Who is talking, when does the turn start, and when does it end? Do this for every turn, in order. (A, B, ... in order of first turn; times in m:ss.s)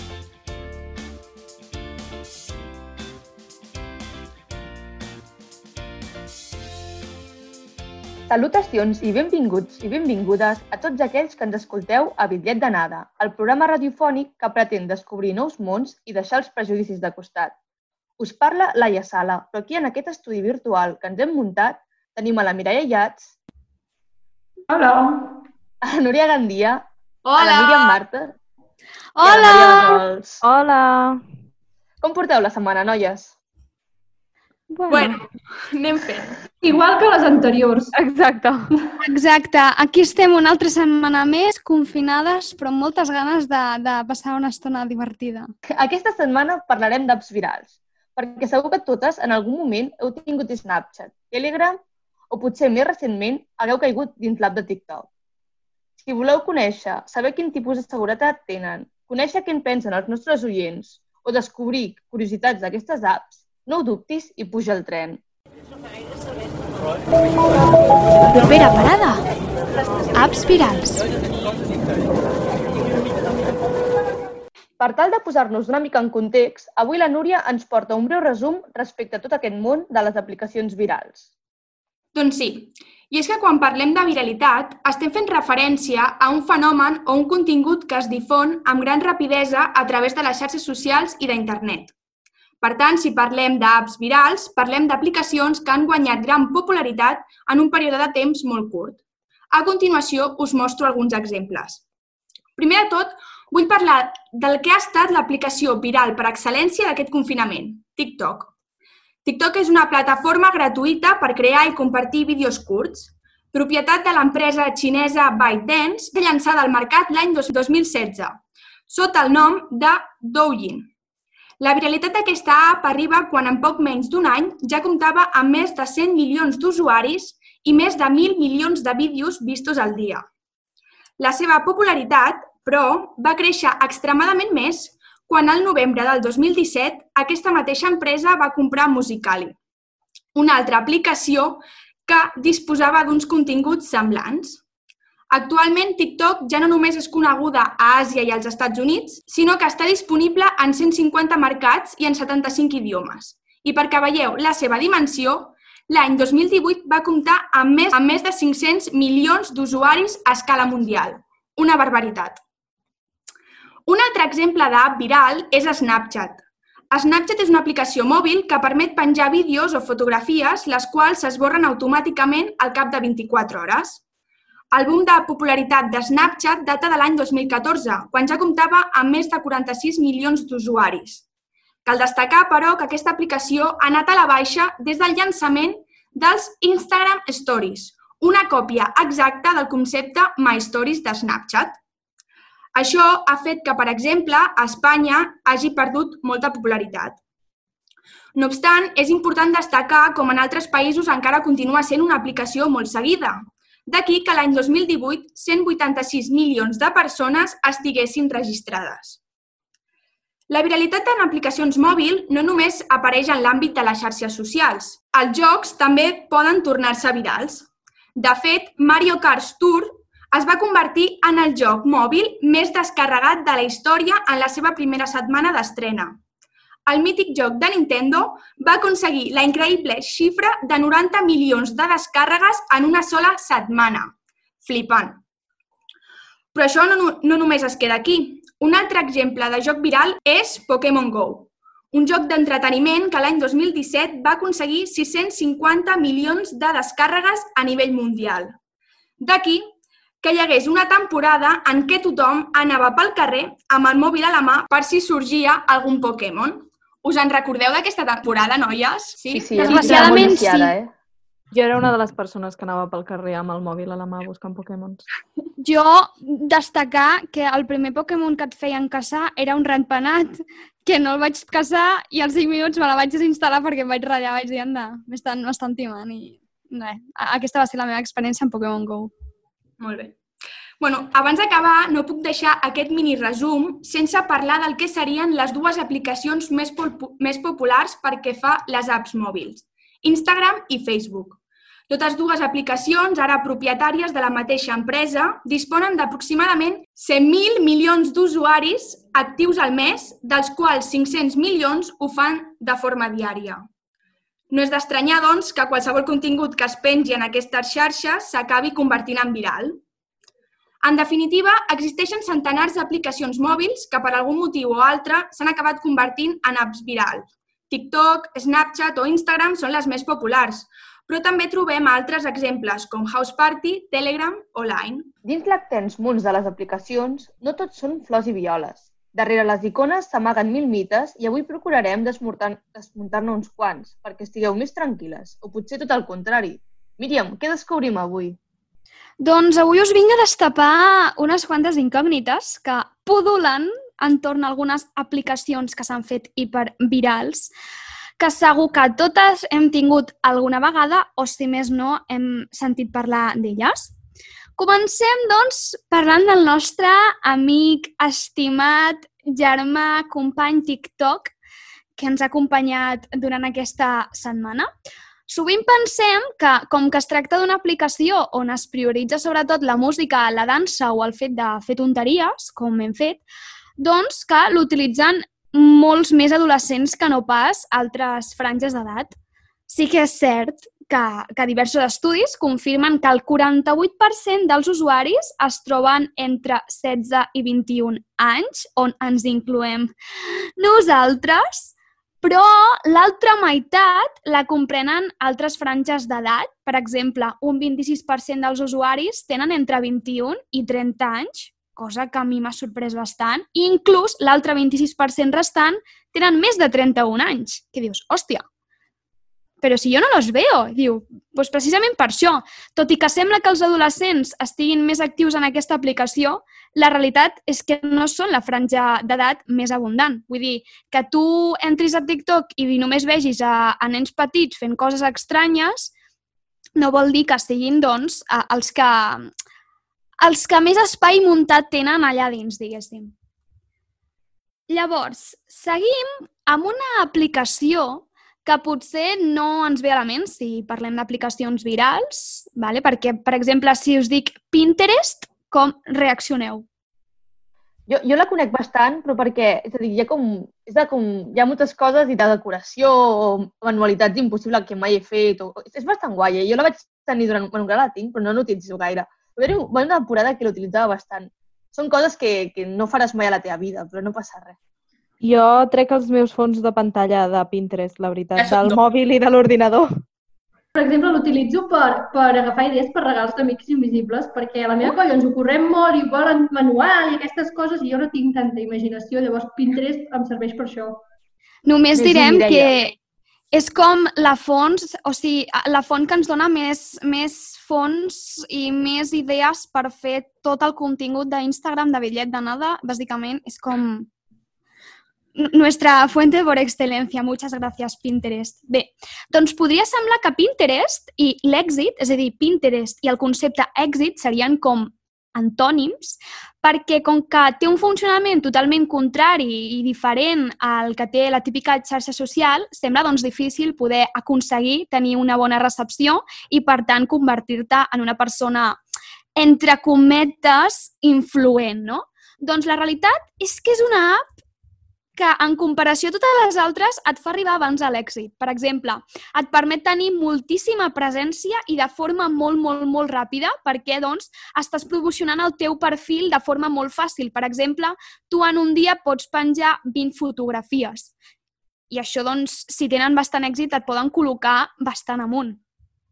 0:08.3-0:17.5 A
0:18.2-0:23.3 A
0:24.7-0:25.4 B
0:25.8-0:28.4 A
0:27.2-0:28.0 C
0:29.2-0:30.0 D
0:29.2-0:30.4 A
0:30.4-0:31.2 E
0:32.0-0:33.3 A
0:34.7-0:35.2 E
0:34.9-0:36.4 C
0:36.6-0:37.9 B
0:38.0-0:38.7 E
0:39.0-0:45.5 D
0:45.8-0:51.8 A
0:52.3-0:55.1 A
0:56.0-1:05.2 A
1:08.3-1:09.2 D
1:10.2-1:11.0 D
1:14.8-1:21.3 A
1:22.2-1:31.9 C
1:32.6-1:39.0 C
1:39.5-1:41.8 C
1:42.6-1:48.5 C
1:49.2-2:00.9 C
2:01.6-2:10.3 C
2:11.2-2:19.6 C
2:20.3-2:24.6 C
2:25.3-2:42.4 C
2:43.9-2:54.0 C
2:54.7-3:01.2 C
3:01.8-3:11.8 C
3:12.7-3:17.2 C
3:18.4-3:29.2 C
3:30.5-3:46.2 C
3:46.9-3:55.2 C
3:56.5-4:08.6 C
4:09.2-4:09.7 C
4:10.2-4:20.4 C
4:19.3-4:20.9 A
4:19.6-4:20.7 D
4:21.5-4:25.0 E
4:25.6-4:39.1 D
4:39.8-4:40.2 C
4:40.8-5:03.6 C
5:04.5-5:09.8 C
5:10.8-5:25.1 C
5:25.2-5:38.4 A
5:39.2-5:47.5 D
5:48.2-5:53.9 D
5:54.6-6:01.3 D
6:02.0-6:04.7 D
6:05.3-6:13.2 D
6:13.8-6:19.1 D
6:19.7-6:29.9 D
6:30.6-6:48.4 D
6:49.6-7:05.9 D
7:06.8-7:09.3 D
7:10.2-7:13.1 D
7:14.7-7:26.6 D
7:27.9-7:44.6 A
7:45.2-7:49.9 E
7:48.4-7:48.8 C
7:50.8-8:01.0 B
8:01.7-8:02.9 D
8:02.0-8:02.8 A
8:03.5-8:14.1 D
8:15.4-8:38.8 D
8:39.4-8:44.2 D
8:45.2-9:01.1 D
9:01.9-9:05.6 D